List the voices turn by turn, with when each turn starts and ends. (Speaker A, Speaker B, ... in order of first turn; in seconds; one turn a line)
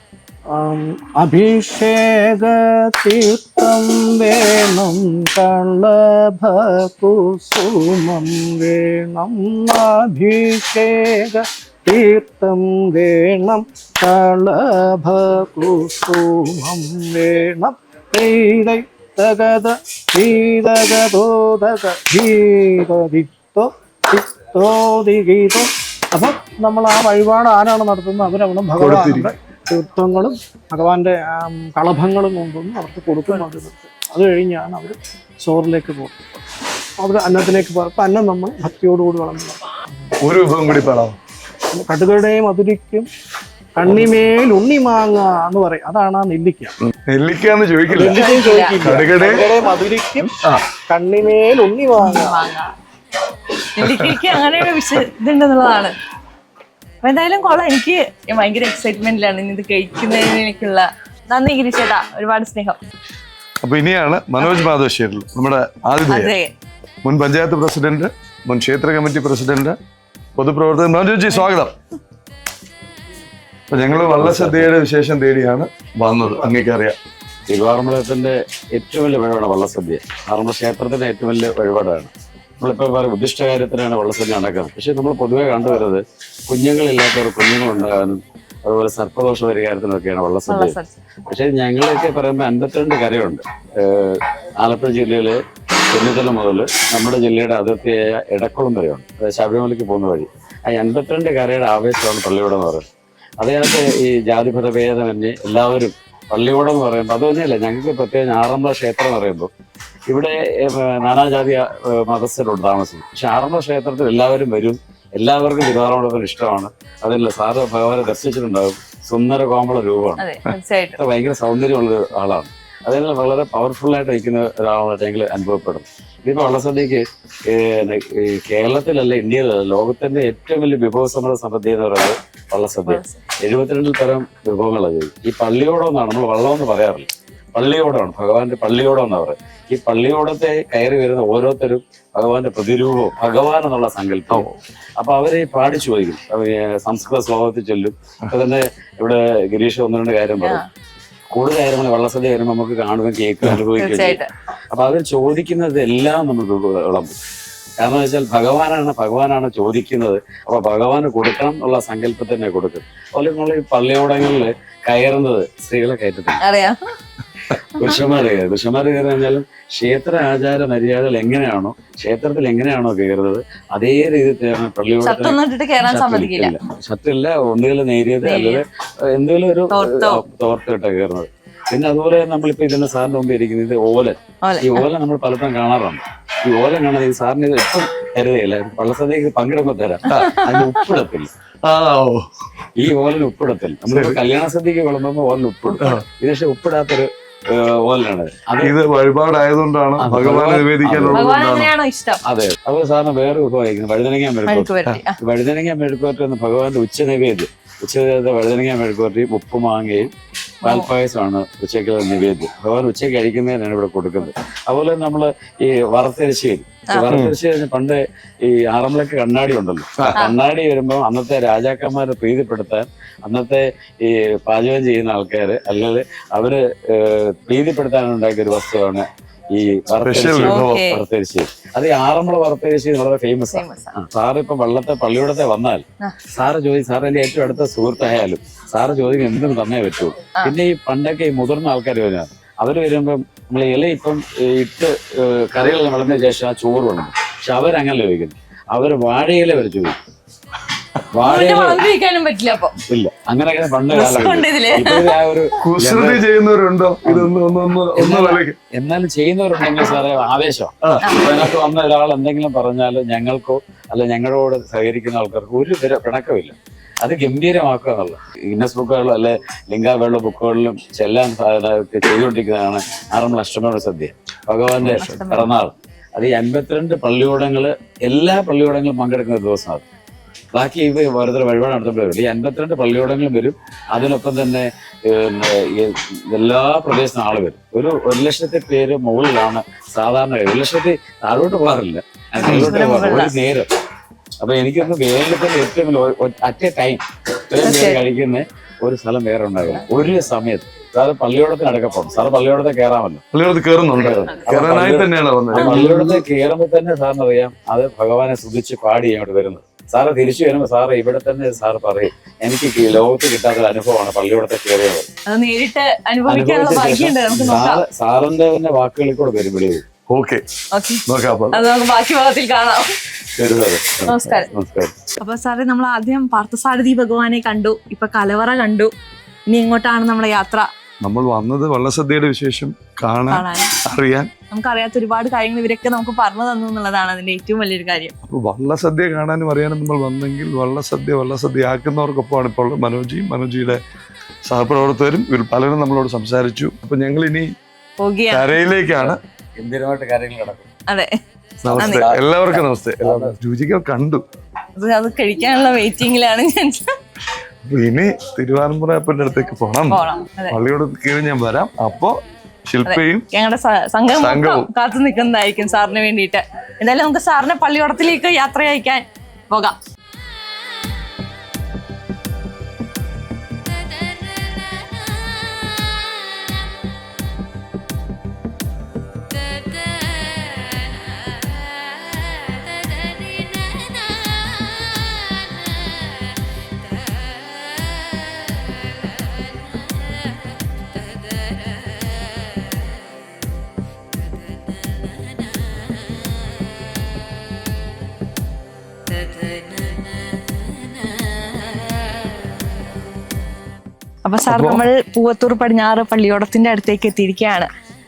Speaker A: 0.5-36.1
Speaker B: 28.8-29.3
Speaker A: 37.0-40.1
Speaker B: 40.2-41.1
Speaker A: 41.7-43.0
Speaker A: 43.8-46.7
Speaker B: 46.8-48.3
Speaker A: 47.9-50.3
Speaker C: 48.1-48.8
Speaker B: 48.8-49.5
Speaker B: 50.2-50.7
Speaker A: 50.9-52.4
Speaker C: 52.0-52.7
Speaker C: 53.7-56.0
Speaker B: 53.8-54.4
Speaker C: 57.0-62.8
Speaker B: 63.6-66.3
Speaker C: 66.1-66.5
Speaker B: 67.0-69.8
Speaker B: 70.3-71.7
Speaker B: 73.7-77.0
Speaker D: 74.2-74.7
Speaker D: 77.5-90.7
Speaker C: 90.5-90.9
Speaker D: 91.3-95.4
Speaker D: 95.9-102.8
Speaker D: 103.4-109.5
Speaker D: 110.1-120.2
Speaker C: 120.2-121.0
Speaker D: 121.0-144.5
Speaker C: 132.8-133.2
Speaker B: 144.3-144.6
Speaker D: 145.0-150.6
Speaker C: 150.4-150.7
Speaker D: 151.3-157.1
Speaker C: 153.7-154.3
Speaker D: 157.8-166.4
Speaker C: 166.4-166.9
Speaker D: 167.8-191.3
Speaker C: 175.0-176.6
Speaker C: 178.2-178.6
Speaker C: 179.7-180.2
Speaker C: 184.4-184.9
Speaker C: 190.1-190.8
Speaker B: 190.1-190.3
Speaker B: 191.6-192.3
Speaker D: 192.8-198.7
Speaker B: 193.9-194.2
Speaker B: 195.8-196.0
Speaker B: 198.6-201.7
Speaker D: 200.0-201.2
Speaker C: 201.1-202.2
Speaker D: 202.2-204.7
Speaker C: 204.5-205.2
Speaker D: 205.2-210.1
Speaker C: 210.6-210.9
Speaker D: 210.6-250.0
Speaker B: 220.0-220.2
Speaker B: 230.0-230.8
Speaker C: 230.4-231.0
Speaker C: 233.5-234.0
Speaker D: 251.1-251.8
Speaker C: 251.2-252.8
Speaker D: 252.9-256.2
Speaker C: 253.9-255.0
Speaker B: 255.6-258.6
Speaker D: 257.0-257.3
Speaker D: 257.9-279.8
Speaker C: 261.0-261.3
Speaker B: 274.8-275.4
Speaker C: 274.8-275.5
Speaker D: 280.5-293.7
Speaker C: 292.3-293.4
Speaker B: 292.4-292.8
Speaker D: 294.4-303.2
Speaker C: 297.6-298.0
Speaker B: 303.3-306.2
Speaker D: 303.9-315.1
Speaker C: 305.5-306.0
Speaker C: 315.2-317.8
Speaker D: 316.3-319.8
Speaker B: 320.1-320.4
Speaker C: 320.7-322.9
Speaker B: 321.1-321.6
Speaker D: 323.3-324.9
Speaker C: 324.1-324.5
Speaker C: 325.2-328.9
Speaker C: 329.5-330.7
Speaker B: 331.0-334.3
Speaker C: 333.3-333.7
Speaker C: 334.5-338.1
Speaker B: 338.2-343.8
Speaker B: 344.4-347.5
Speaker C: 348.0-348.6
Speaker B: 348.3-349.2
Speaker D: 348.9-350.7
Speaker C: 350.9-351.1
Speaker D: 351.6-353.4
Speaker B: 351.6-354.2
Speaker C: 351.7-352.0
Speaker C: 354.8-356.8
Speaker B: 357.6-362.1
Speaker C: 359.9-360.6
Speaker B: 362.7-363.2
Speaker C: 362.8-369.8
Speaker B: 364.2-364.7
Speaker C: 404.2-407.7
Speaker B: 404.5-404.9